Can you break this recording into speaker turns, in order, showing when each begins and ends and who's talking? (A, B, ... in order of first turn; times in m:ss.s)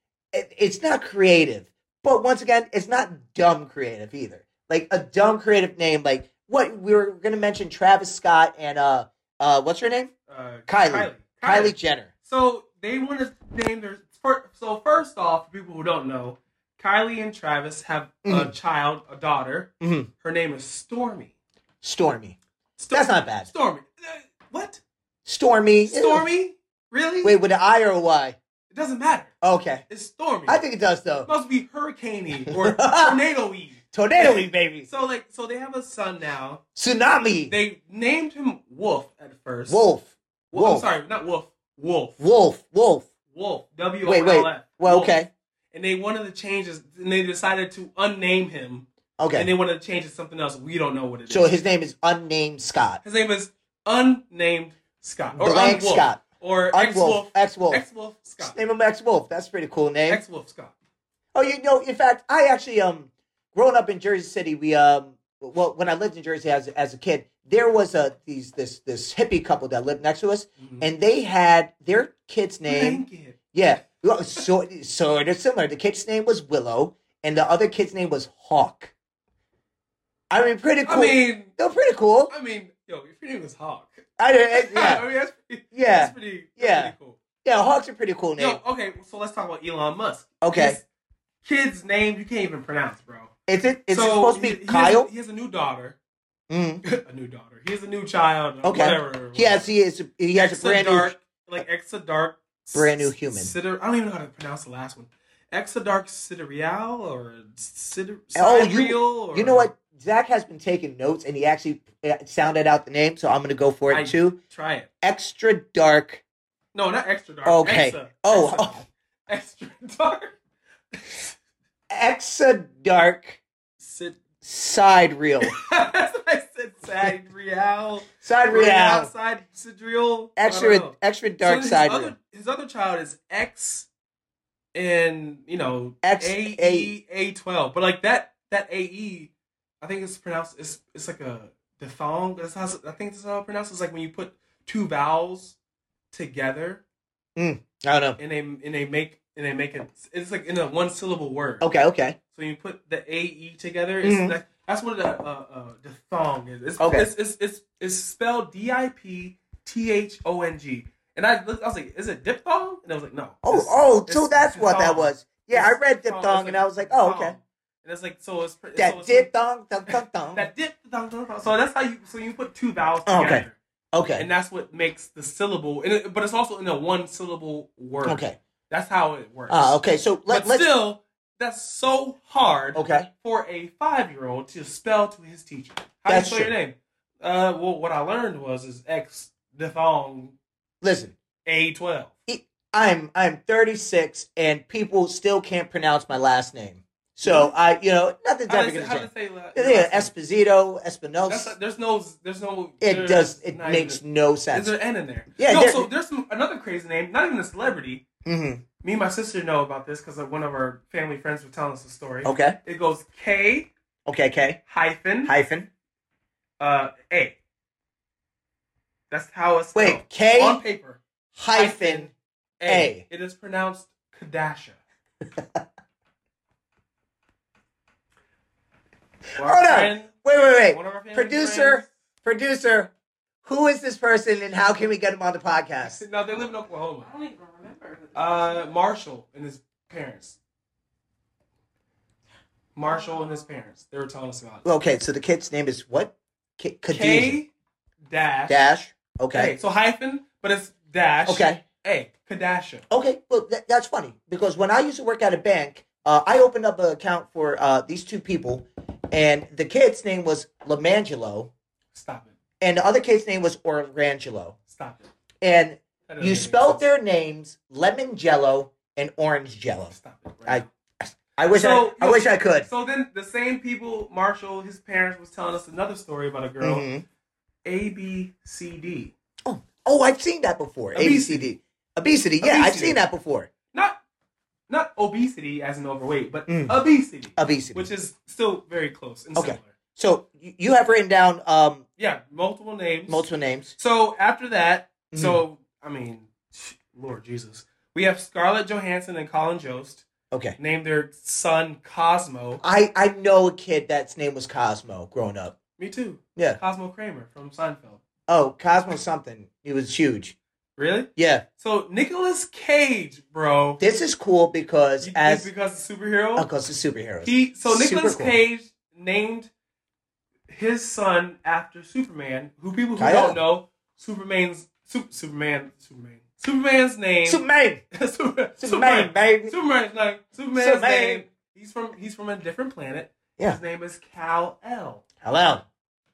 0:00.3-0:10.1 A
0:10.3-0:21.3 B
0:10.7-0:12.1 A
0:18.2-0:18.5 A
0:19.8-0:20.1 A
0:21.8-0:22.4 A
0:22.8-0:24.8 B
0:22.9-0:23.5 A
0:25.2-0:26.2 A
0:25.8-0:27.4 B
0:27.2-0:28.4 A
0:28.7-0:29.3 B
0:29.4-0:29.8 A
0:29.9-0:30.6 B
0:30.5-0:31.3 A
0:31.2-0:36.6 B
0:32.5-0:33.2 A
0:33.9-0:34.9 A
0:36.8-0:37.5 A
0:37.5-0:39.8 B
0:39.7-0:40.8 A
0:40.5-0:42.2 B
0:42.2-0:43.1 A
0:43.3-0:45.2 B
0:44.0-0:45.3 A
0:45.7-0:51.6 B
0:49.2-0:49.5 A
0:51.3-0:53.0 A
0:53.0-0:58.6 B
0:55.4-0:57.8 A
0:58.4-1:00.2 A
1:00.1-1:00.7 B
1:01.3-1:18.9 A
1:10.6-1:10.8 B
1:12.6-1:13.4 B
1:20.3-1:22.3 A
1:20.8-1:21.5 B
1:22.3-1:27.2 B
1:24.2-1:25.0 A
1:25.7-1:28.6 A
1:28.4-1:30.8 B
1:30.4-1:30.8 A
1:31.4-1:33.3 B
1:33.5-1:35.1 A
1:33.9-1:36.0 B
1:36.5-1:36.8 A
1:36.8-1:39.6 B
1:38.6-1:41.2 A
1:40.3-1:49.7 B
1:42.7-1:43.5 A
1:48.3-1:54.4 A
1:53.9-1:54.9 B
1:55.0-1:56.2 A
1:56.7-2:00.4 B
1:57.4-1:58.8 A
2:00.9-2:01.3 B
2:01.9-2:03.4 A
2:03.8-2:04.2 B
2:04.4-2:05.5 A
2:05.4-2:13.9 B
2:08.2-2:09.1 A
2:10.4-2:12.1 A
2:14.7-2:25.6 B
2:16.0-2:16.9 A
2:26.1-2:26.8 B
2:27.4-2:28.2 A
2:28.2-2:31.7 B
2:31.6-2:32.2 A
2:32.3-2:49.3 B
2:34.0-2:34.3 A
2:36.8-2:37.1 A
2:43.4-2:47.4 A
2:48.8-2:50.5 A
2:49.9-2:53.6 B
2:53.0-2:54.3 A
2:54.2-3:10.3 B
2:58.0-2:58.4 A
2:59.5-3:00.7 A
3:02.7-3:03.1 A
3:06.1-3:06.5 A
3:10.8-3:11.1 A
3:11.4-3:12.1 B
3:12.3-3:21.5 A
3:17.2-3:17.5 B
3:18.5-3:20.1 B
3:21.3-3:28.0 B
3:22.8-3:24.7 A
3:25.4-3:25.9 A
3:28.2-3:28.6 A
3:28.8-3:33.7 B
3:32.2-3:32.6 A
3:34.0-3:34.6 A
3:34.7-3:35.3 B
3:35.2-3:35.7 A
3:36.6-3:37.4 B
3:39.1-3:41.0 B
3:39.7-3:40.6 A
3:41.3-3:42.1 A
3:41.5-3:44.8 B
3:42.6-3:43.0 A
3:49.4-3:50.1 B
3:49.4-3:52.9 A
3:50.7-3:51.9 B
3:53.4-3:56.0 A
3:55.8-3:57.1 B
3:57.0-3:58.8 C
3:58.1-4:00.4 B
4:02.7-4:04.7 B
4:02.8-4:03.5 C
4:04.6-4:07.4 A
4:06.9-4:07.5 B
4:08.1-4:08.6 B
4:08.5-4:09.5 A
4:09.3-4:12.8 B
4:11.3-4:11.6 A
4:12.9-4:21.5 A
4:21.9-4:22.4 B
4:22.6-4:24.6 A
4:24.7-4:25.1 B
4:25.4-4:29.9 A
4:26.1-4:26.8 B
4:29.9-4:30.7 B
4:30.4-4:32.7 A
4:31.5-4:36.8 B
4:36.6-4:37.0 A
4:37.6-4:39.1 B
4:39.4-4:43.5 A
4:40.9-4:41.5 B
4:42.4-4:43.0 B
4:43.7-4:44.0 B
4:44.7-4:49.7 B
4:46.5-4:46.8 A
4:47.4-4:47.9 A
4:49.4-4:51.8 A
4:52.0-5:00.0 B
4:53.1-4:53.7 A
4:55.1-4:55.4 A
5:00.3-5:00.6 A
5:00.6-5:02.6 B
5:02.6-5:05.6 A
5:05.8-5:08.0 B
5:08.3-5:10.4 A
5:10.8-5:13.8 B
5:11.2-5:11.4 A
5:13.8-5:15.5 A
5:15.0-5:16.5 B
5:16.4-5:18.3 A
5:17.2-5:19.5 B
5:20.5-5:35.0 B
5:23.0-5:23.4 A
5:27.2-5:27.8 A
5:28.6-5:29.5 A
5:30.5-5:31.2 A
5:35.2-5:35.6 A